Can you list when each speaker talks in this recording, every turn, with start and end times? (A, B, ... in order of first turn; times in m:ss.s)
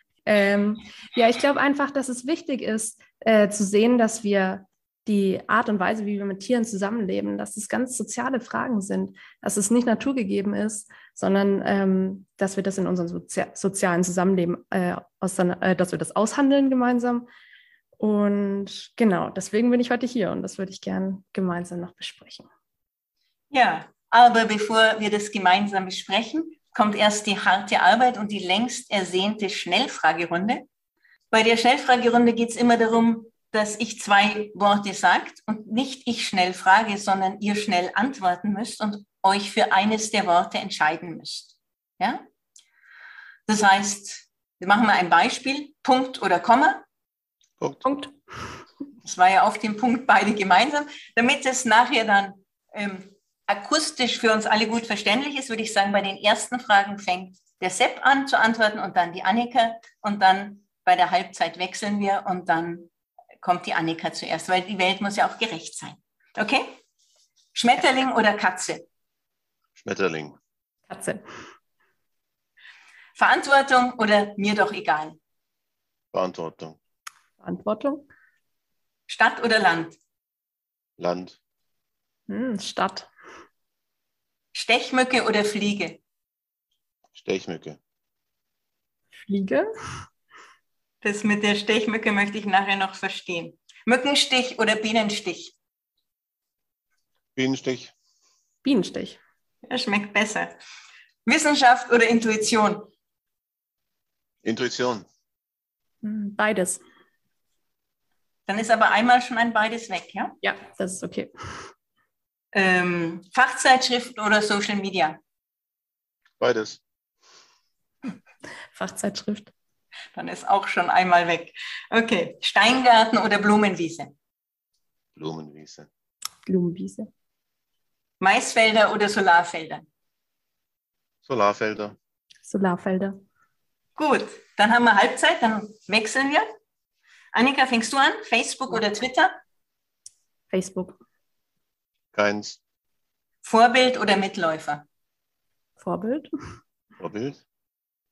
0:00.2-0:17.3 A
0:18.0-0:22.5 A
0:23.5-0:30.6 B
0:31.3-0:42.2 B
0:43.5-0:46.8 B
0:47.6-0:47.8 C
0:47.8-0:48.1 A
0:49.0-1:02.9 B
1:03.4-1:06.8 B
1:07.5-1:08.8 B
1:09.8-1:10.4 C
1:10.9-1:11.2 A
1:13.2-1:15.2 B
1:16.1-1:16.8 C
1:17.4-1:18.1 A
1:19.1-1:20.0 B
1:21.0-1:21.4 C
1:22.3-1:23.1 A
1:24.5-1:26.0 B
1:27.1-1:27.8 C
1:29.2-1:29.7 A
1:31.0-1:35.5 B
1:37.4-1:37.9 C
1:38.6-1:39.2 A
1:39.6-1:40.5 B
1:41.2-1:42.9 B
1:44.4-1:45.0 C
1:46.0-1:46.8 A
1:48.5-1:50.4 B
1:50.4-1:51.3 A
1:52.5-1:55.2 B
1:56.4-1:56.8 C
1:58.7-1:59.5 A
2:00.1-2:04.1 B
2:05.2-2:05.9 C
2:06.5-2:07.1 A
2:08.2-2:09.8 B
2:11.2-2:12.0 C
2:12.4-2:13.2 A
2:14.0-2:16.5 B
2:17.3-2:19.3 B
2:20.5-2:21.0 A
2:22.1-2:22.6 C
2:23.4-2:24.8 B
2:25.8-2:26.3 A
2:27.0-2:27.4 C